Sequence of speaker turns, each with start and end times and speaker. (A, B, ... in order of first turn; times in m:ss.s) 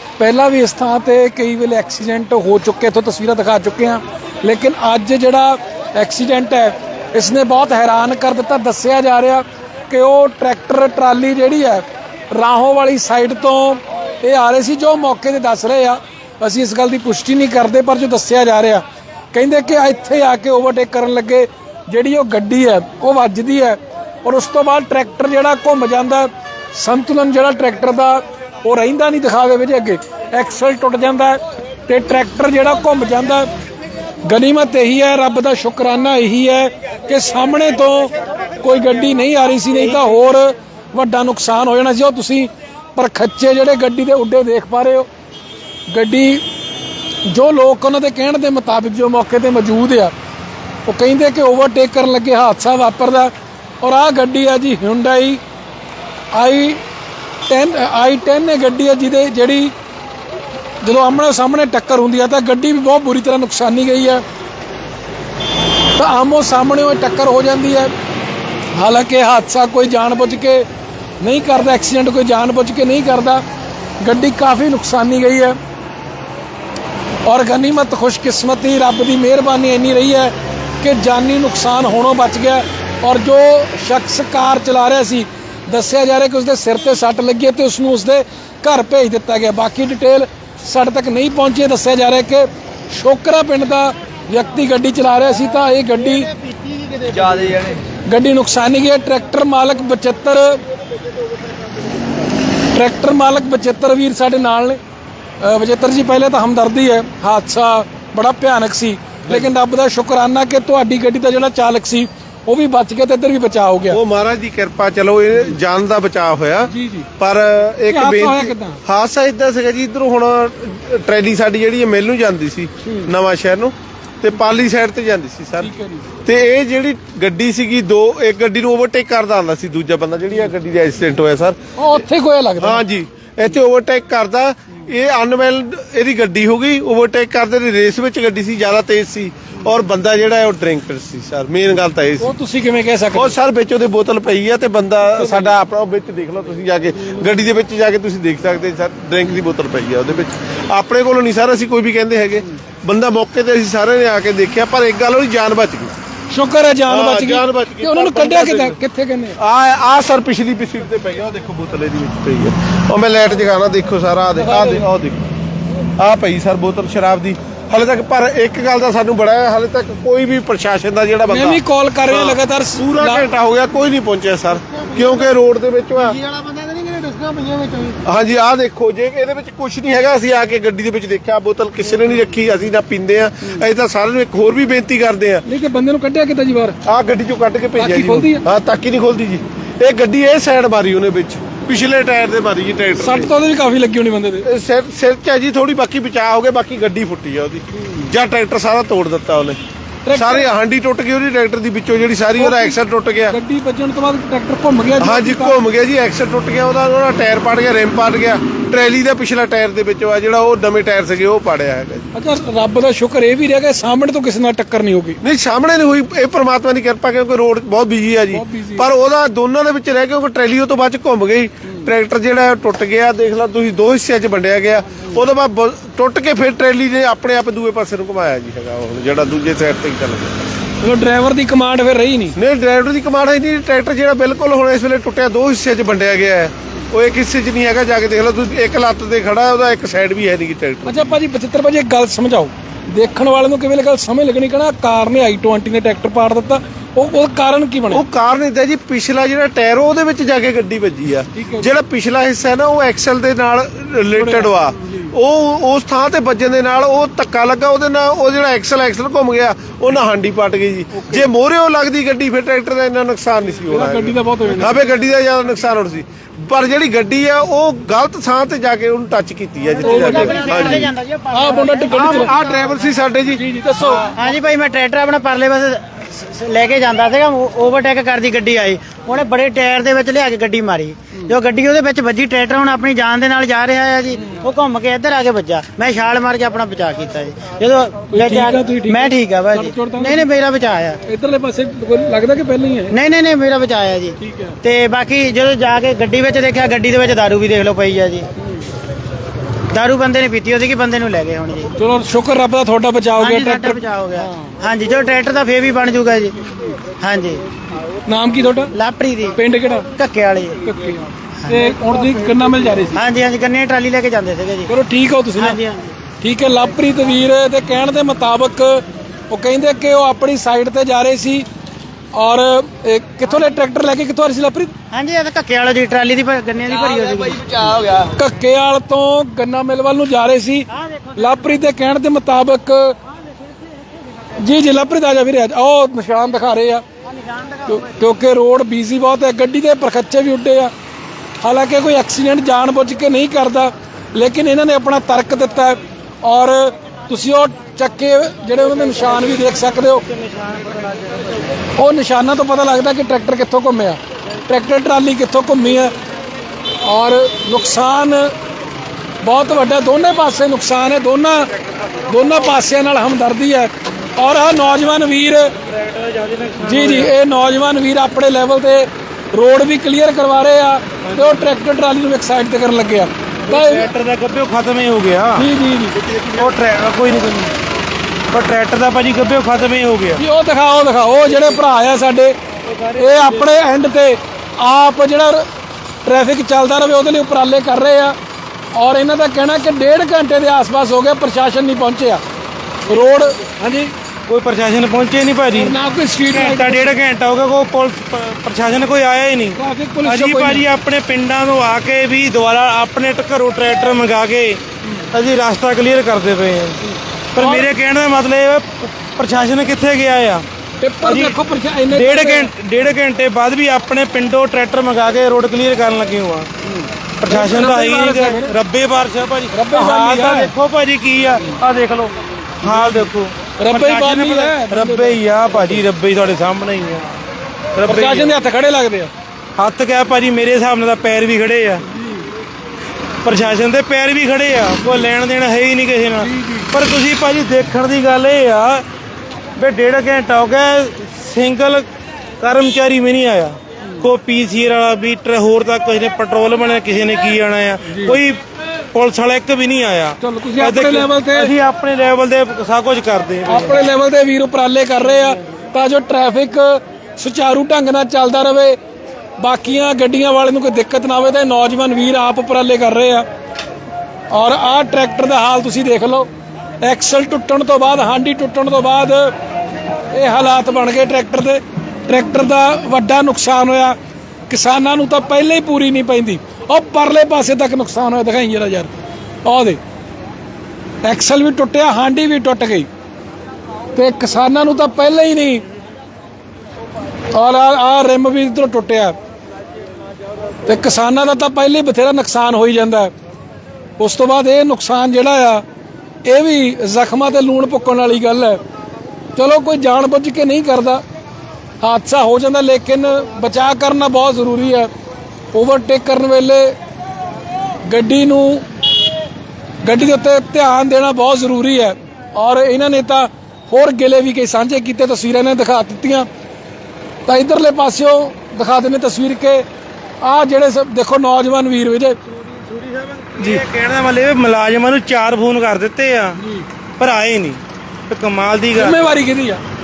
0:00.2-0:33.5 A
0:34.2-0:45.1 A
0:45.9-0:46.4 A
0:47.2-0:50.1 A
0:50.8-0:55.4 A
0:56.3-0:56.8 A
0:57.5-0:59.7 A
1:00.8-1:04.2 A
1:05.9-1:07.9 A
1:08.7-1:10.6 A
1:11.2-1:13.4 A
1:14.0-1:15.6 A
1:17.2-1:36.3 A
1:36.6-1:37.8 B
1:38.0-1:40.6 A
1:42.7-1:44.8 A
1:45.4-1:54.0 A
1:53.9-2:05.7 C
1:56.7-1:57.1 A
1:57.9-1:58.8 A
2:05.6-2:06.1 A
2:06.2-2:11.6 C
2:11.8-2:12.8 A
2:12.6-2:22.3 C
2:22.2-2:23.3 A
2:23.1-2:35.9 C
2:25.1-2:25.5 A
2:36.3-2:39.4 A
2:36.9-2:38.8 C
2:39.4-2:45.3 C
2:44.3-2:44.8 A
2:46.0-2:56.2 C
2:51.3-2:53.3 A
2:54.8-2:55.2 B
2:56.0-2:58.0 B
2:58.0-3:05.4 C
3:05.4-3:06.8 A
3:06.8-3:13.3 C
3:07.8-3:08.4 A
3:13.0-3:14.5 A
3:14.4-3:19.6 C
3:20.0-3:20.5 A
3:20.1-3:23.4 C
3:22.4-3:22.8 A
3:23.3-3:25.6 A
3:25.0-3:32.1 C
3:32.1-3:35.2 A
3:35.2-3:50.5 C
3:38.3-3:38.9 A
3:50.8-3:52.4 A
3:52.4-4:01.2 C
4:00.8-4:08.0 A
4:07.9-4:30.9 C
4:11.3-4:11.7 A
4:14.1-4:15.1 A
4:20.9-4:21.3 A
4:23.7-4:24.8 A
4:29.8-4:32.8 D
4:29.8-4:32.3 A
4:31.9-4:33.4 C
4:33.3-4:34.1 A
4:34.1-4:51.0 D
4:48.1-4:50.3 A
4:51.0-4:53.0 A
4:52.9-4:58.3 D
4:54.2-4:54.6 A
4:59.7-5:01.7 D
5:01.8-5:03.8 A
5:03.2-5:07.4 D
5:08.0-5:08.7 A
5:08.7-5:09.4 D
5:09.3-5:09.9 A
5:09.9-5:10.6 D
5:10.6-5:13.0 A
5:12.9-5:14.7 D
5:14.7-5:15.6 A
5:15.3-5:15.9 D
5:16.2-5:21.4 A
5:22.1-5:24.7 A
5:24.9-5:27.9 D
5:28.1-5:33.0 A
5:30.7-5:31.4 D
5:34.4-5:36.8 A
5:37.1-5:37.9 D
5:37.6-5:40.7 A
5:41.4-5:50.0 A
5:50.1-5:51.4 E
5:51.8-5:55.9 A
5:56.8-5:58.3 A
5:59.2-6:01.5 A
6:02.1-6:05.5 A
6:05.6-6:07.1 E
6:06.6-6:13.9 A
6:11.0-6:11.5 E
6:13.5-6:15.5 E
6:15.4-6:16.0 A
6:16.1-6:17.5 E
6:18.3-6:20.2 E
6:20.2-6:22.4 A
6:22.6-6:23.6 E
6:23.0-6:25.5 A
6:26.0-6:28.2 A
6:28.7-6:32.2 A
6:32.9-6:33.9 A
6:34.3-6:35.7 E
6:35.5-6:36.9 A
6:36.3-6:44.6 E
6:39.6-6:40.6 A
6:45.1-6:46.8 E
6:47.3-6:50.4 E
6:47.4-6:47.7 A
6:50.8-6:52.5 A
6:51.0-6:51.4 E
6:51.9-6:56.5 E
6:57.2-7:07.1 E
6:57.3-6:58.5 A
6:59.5-7:00.5 A
7:02.6-7:03.1 A
7:03.6-7:05.8 A
7:07.8-7:08.3 E
7:07.9-7:09.1 A
7:09.6-7:11.8 E
7:13.2-7:18.8 E
7:16.2-7:16.7 A
7:19.6-7:21.9 E
7:22.4-7:28.4 E
7:27.8-7:28.2 A
7:28.9-7:33.9 E
7:30.2-7:31.5 A
7:33.4-7:38.8 A
7:39.4-7:43.2 A
7:44.3-7:46.3 A
7:46.8-7:49.3 A
7:50.1-7:54.0 A
7:54.5-7:58.9 A
7:59.4-7:59.8 A
8:01.0-8:02.9 A
8:03.9-8:05.6 A
8:07.3-8:09.2 A
8:10.6-8:13.1 A
8:14.0-8:15.6 A
8:16.2-8:18.6 A
8:19.4-8:21.0 A
8:21.8-8:24.9 A
8:25.5-8:26.8 A
8:27.8-8:28.6 A
8:29.8-8:36.3 A
8:37.3-8:39.6 A
8:40.2-8:42.2 A
8:42.3-8:46.4 E
8:46.4-8:46.6 A
8:47.0-8:49.0 E
8:48.7-8:49.6 A